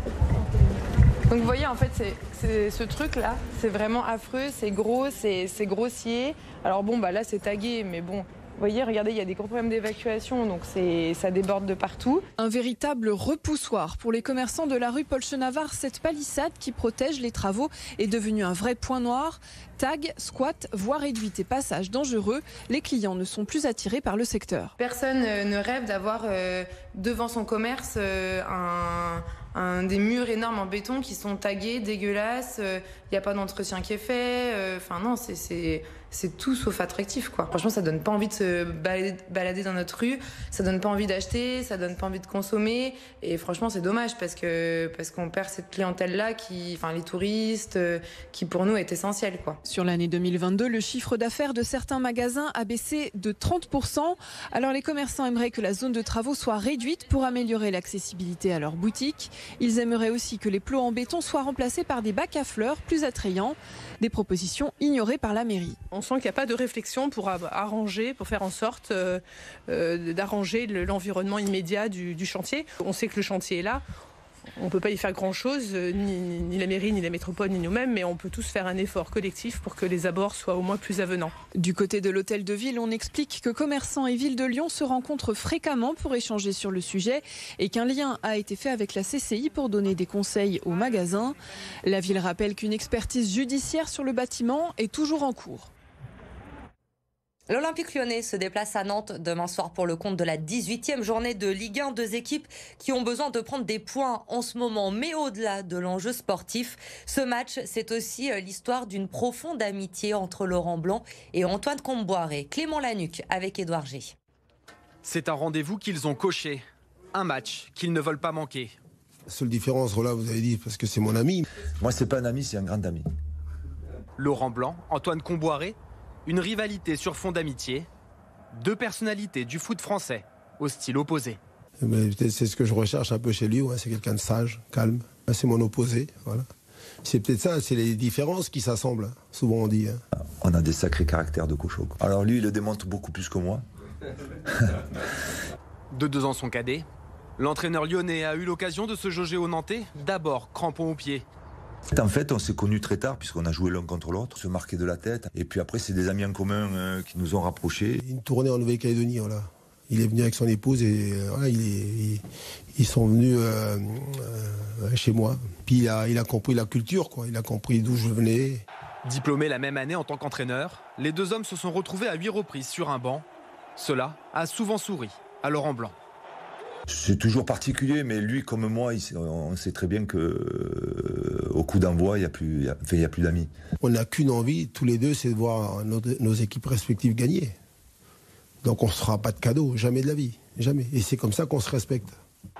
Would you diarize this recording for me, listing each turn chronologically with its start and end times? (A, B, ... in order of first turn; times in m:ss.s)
0:01.3-0:12.2 A
0:12.4-0:24.7 B
0:24.8-0:49.6 A
0:49.6-1:05.8 B
1:05.9-1:13.8 C
1:14.6-1:21.4 C
1:21.5-1:35.7 B
1:37.5-1:54.1 D
1:55.0-1:58.8 E
1:59.3-2:01.4 F
2:01.8-2:03.1 G
2:04.2-2:07.9 E
2:08.5-2:11.4 E
2:11.8-2:16.5 F
2:17.0-2:20.0 F
2:20.4-2:23.6 G
2:25.9-2:26.9 E
2:27.4-2:31.3 E
2:31.9-2:38.0 G
2:38.0-2:42.2 F
2:42.8-2:48.6 F
2:49.0-2:53.2 E
2:53.8-2:56.0 E
2:56.9-3:03.5 G
3:03.8-3:07.5 F
3:08.6-3:12.2 F